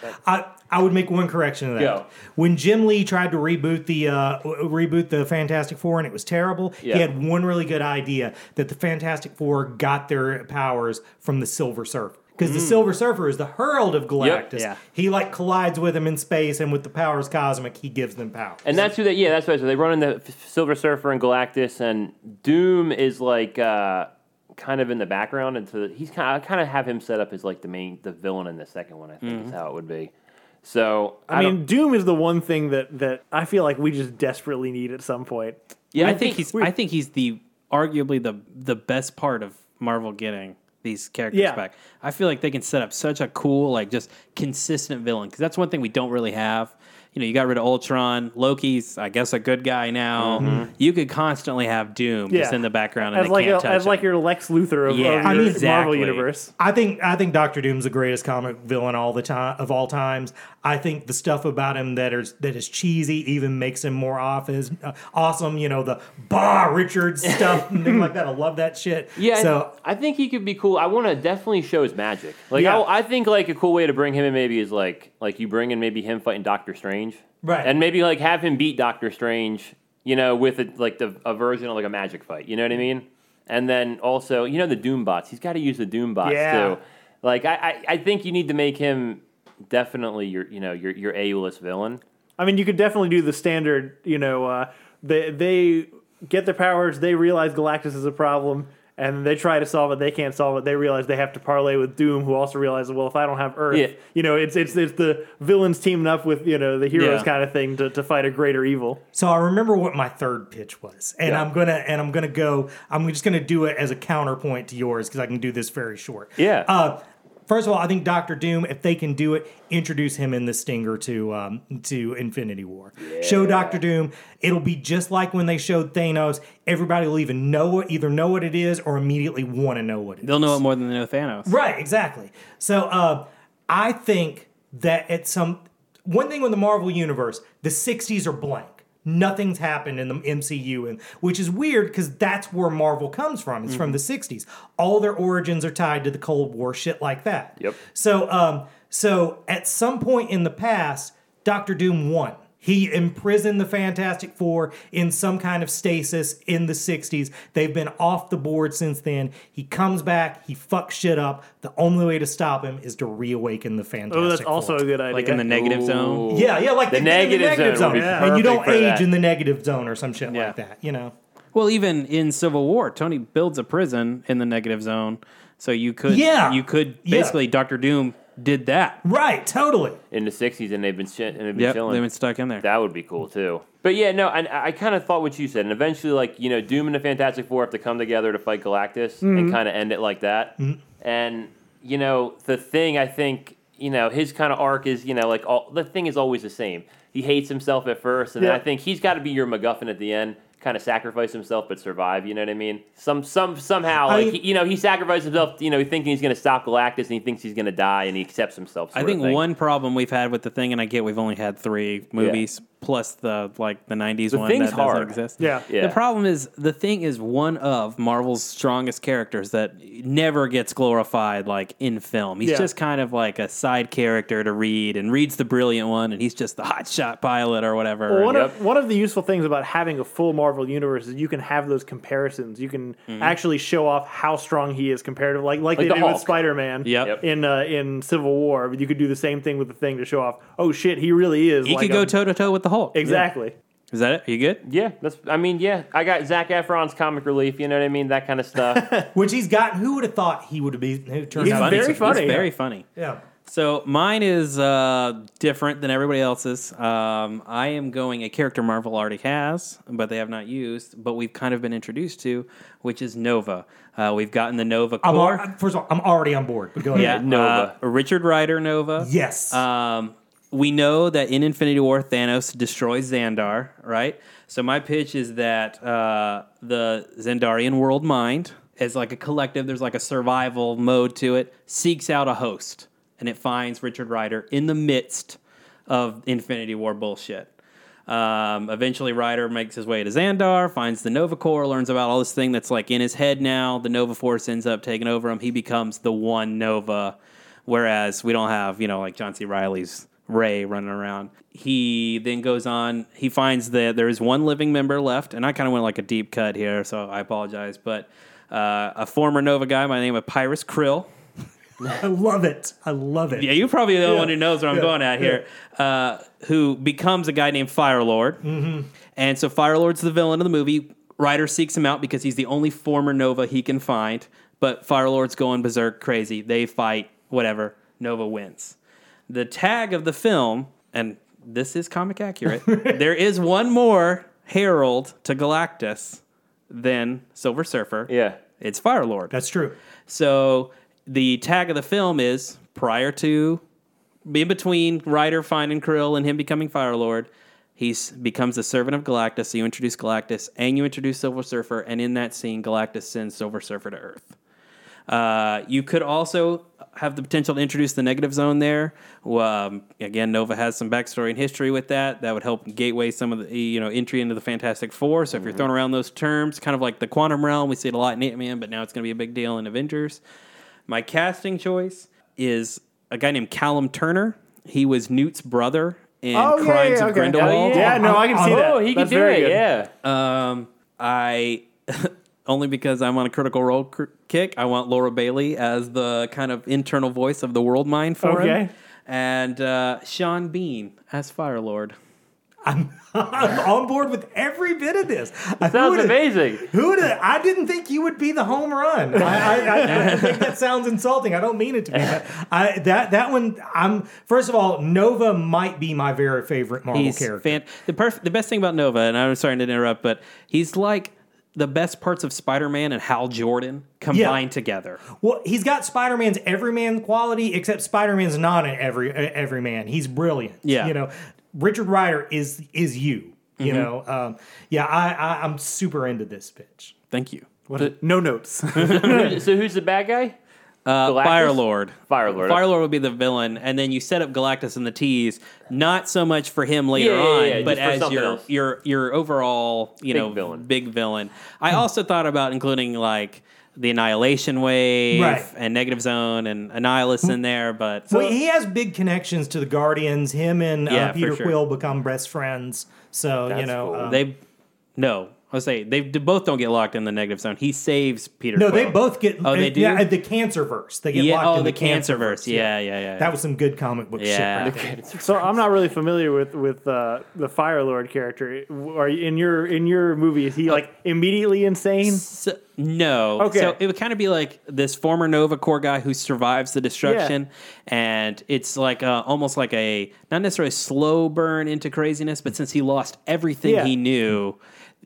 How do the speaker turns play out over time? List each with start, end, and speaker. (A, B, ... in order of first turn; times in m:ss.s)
0:00.2-0:18.9 A
0:01.8-0:02.0 B
0:12.4-0:12.9 B
0:14.2-0:14.7 B
0:18.6-0:30.1 B
0:29.2-0:29.5 C
0:30.6-0:31.6 B
0:31.3-0:36.7 D
0:35.9-0:36.4 B
0:36.0-0:54.1 C
0:41.3-0:41.6 D
0:50.2-0:50.7 B
0:50.4-0:50.7 A
0:52.3-0:56.5 D
0:54.8-0:56.3 C
0:55.2-0:55.6 A
0:56.6-1:09.7 A
1:09.2-1:32.0 B
1:17.4-1:17.7 A
1:26.2-1:26.8 D
1:32.4-1:49.0 D
1:46.9-1:47.3 C
1:49.1-2:10.6 A
1:56.4-1:56.7 B
2:03.0-2:03.8 B
2:10.2-2:11.5 C
2:11.4-2:44.8 A
2:44.1-2:45.6 D
2:45.1-2:46.3 C
2:45.5-2:49.1 B
2:46.3-2:51.1 A
2:47.9-2:48.4 D
2:50.3-2:50.6 C
2:51.5-2:59.0 C
2:56.1-2:57.4 A
2:59.0-3:00.0 A
3:00.1-3:02.0 B
3:01.5-3:02.6 C
3:02.6-3:29.4 B
3:09.2-3:09.6 D
3:24.0-3:24.4 A
3:28.9-3:48.3 C
3:32.2-3:32.4 B
3:34.3-3:36.0 B
3:35.4-3:35.6 D
3:42.4-3:42.7 D
3:48.1-4:02.1 D
3:48.2-3:48.6 B
3:53.1-3:53.4 C
3:55.8-3:56.4 B
3:56.8-3:57.2 C
4:01.6-4:03.3 C
4:02.9-4:03.5 D
4:03.9-4:04.6 C
4:04.6-4:08.9 B
4:08.7-4:09.1 D
4:09.1-4:13.2 A
4:11.4-4:12.8 C
4:11.4-4:12.4 D
4:13.4-4:25.5 C
4:25.0-4:27.2 A
4:26.9-4:27.7 B
4:26.9-4:47.5 C
4:29.0-4:29.6 A
4:48.1-4:57.1 C
4:57.6-5:11.1 C
5:11.9-5:15.4 A
5:13.4-5:18.4 C
5:18.4-5:18.9 A
5:19.1-5:28.8 C
5:29.3-5:39.3 C
5:32.5-5:33.0 A
5:38.1-5:38.4 B
5:39.3-5:39.8 A
5:40.1-5:43.6 C
5:44.2-5:54.4 C
5:55.1-6:10.2 C
6:05.3-6:05.6 B
6:10.9-6:18.0 C
6:16.3-6:19.6 D
6:17.4-6:19.9 B
6:17.8-6:18.7 A
6:20.0-6:31.9 C
6:28.2-6:28.7 D
6:32.6-6:47.6 A
6:35.6-6:36.6 B
6:39.8-6:40.4 C
6:46.9-6:55.0 C
6:54.1-6:54.4 A
6:55.1-7:06.9 A
7:00.6-7:00.9 C
7:03.6-7:03.9 C
7:07.1-7:07.5 C
7:07.7-7:09.4 D
7:08.8-7:09.3 C
7:08.8-7:10.4 B
7:10.8-7:28.3 C
7:11.0-7:12.7 B
7:16.9-7:18.5 B
7:20.1-7:20.6 B
7:25.1-7:25.5 A
7:28.1-7:34.2 A
7:30.9-7:31.6 C
7:33.5-7:34.2 B
7:34.0-7:34.4 C
7:35.0-7:40.1 C
7:38.5-7:44.9 A
7:41.1-7:43.3 C
7:44.2-7:44.8 C
7:44.6-7:45.6 B
7:45.2-7:52.2 D
7:52.0-8:04.6 C
7:53.4-7:53.8 D
7:57.0-7:57.3 D
8:03.6-8:03.9 D